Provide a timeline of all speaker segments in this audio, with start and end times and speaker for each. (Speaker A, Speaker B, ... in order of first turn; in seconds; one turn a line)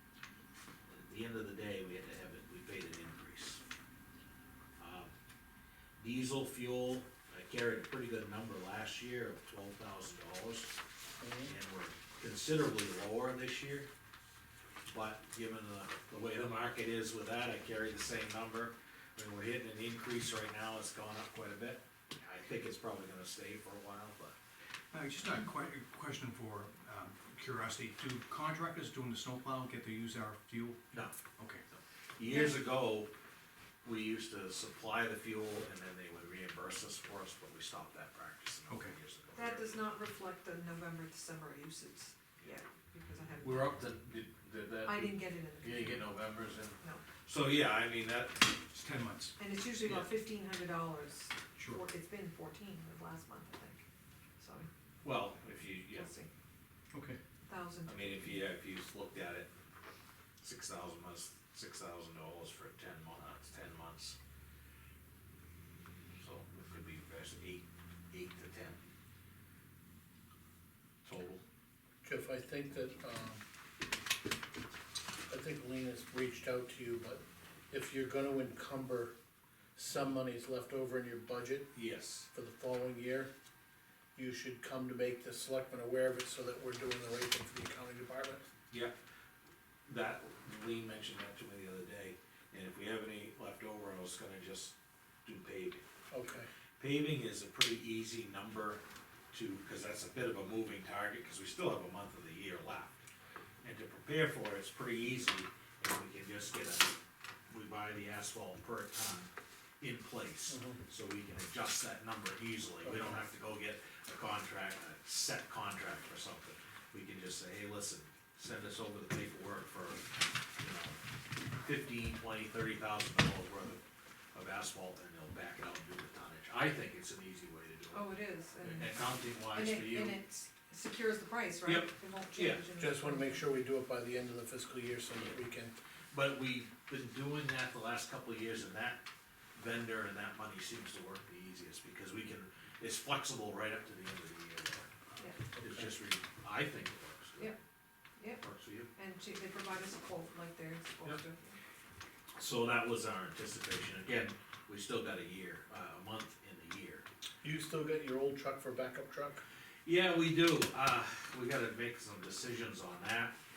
Speaker A: 0.9-3.6
Speaker A: 4.8-5.1
Speaker A: 6.0-10.7
Speaker B: 11.2-11.5
Speaker A: 11.4-13.9
Speaker A: 14.8-24.3
Speaker C: 24.9-30.8
Speaker A: 30.9-31.2
Speaker C: 31.4-31.6
Speaker A: 31.7-33.1
Speaker D: 32.3-32.6
Speaker A: 33.8-39.8
Speaker C: 38.7-38.9
Speaker D: 39.3-43.9
Speaker A: 43.4-48.5
Speaker D: 44.8-46.0
Speaker C: 48.7-49.3
Speaker D: 49.4-53.8
Speaker A: 49.8-50.1
Speaker C: 51.5-51.8
Speaker D: 54.4-54.7
Speaker A: 55.0-56.1
Speaker D: 55.9-56.3
Speaker C: 56.9-57.2
Speaker D: 57.5-58.4
Speaker A: 57.9-59.5
Speaker A: 60.4-64.2
Speaker A: 66.2-68.8
Speaker A: 71.0-71.4
Speaker B: 72.0-73.4
Speaker B: 75.3-79.1
Speaker B: 79.8-81.7
Speaker A: 81.7-82.3
Speaker B: 82.3-83.3
Speaker B: 84.2-88.5
Speaker A: 88.7-88.9
Speaker A: 89.9-95.8
Speaker B: 96.1-96.5
Speaker A: 96.8-98.8
Speaker A: 99.3-103.0
Speaker A: 103.6-107.0
Speaker A: 107.5-109.3
Speaker A: 109.8-121.0
Speaker B: 110.5-110.8
Speaker B: 112.8-113.2
Speaker A: 121.6-123.8
Speaker A: 124.3-128.1
Speaker D: 127.9-133.4
Speaker A: 128.6-130.2
Speaker A: 131.7-132.6
Speaker B: 132.8-135.7
Speaker A: 135.1-135.4
Speaker A: 136.1-139.0
Speaker A: 139.5-147.5
Speaker D: 145.2-145.4
Speaker D: 148.2-148.4
Speaker A: 148.4-148.9
Speaker D: 148.9-151.6
Speaker A: 152.3-157.0
Speaker B: 157.4-159.4
Speaker A: 159.8-163.3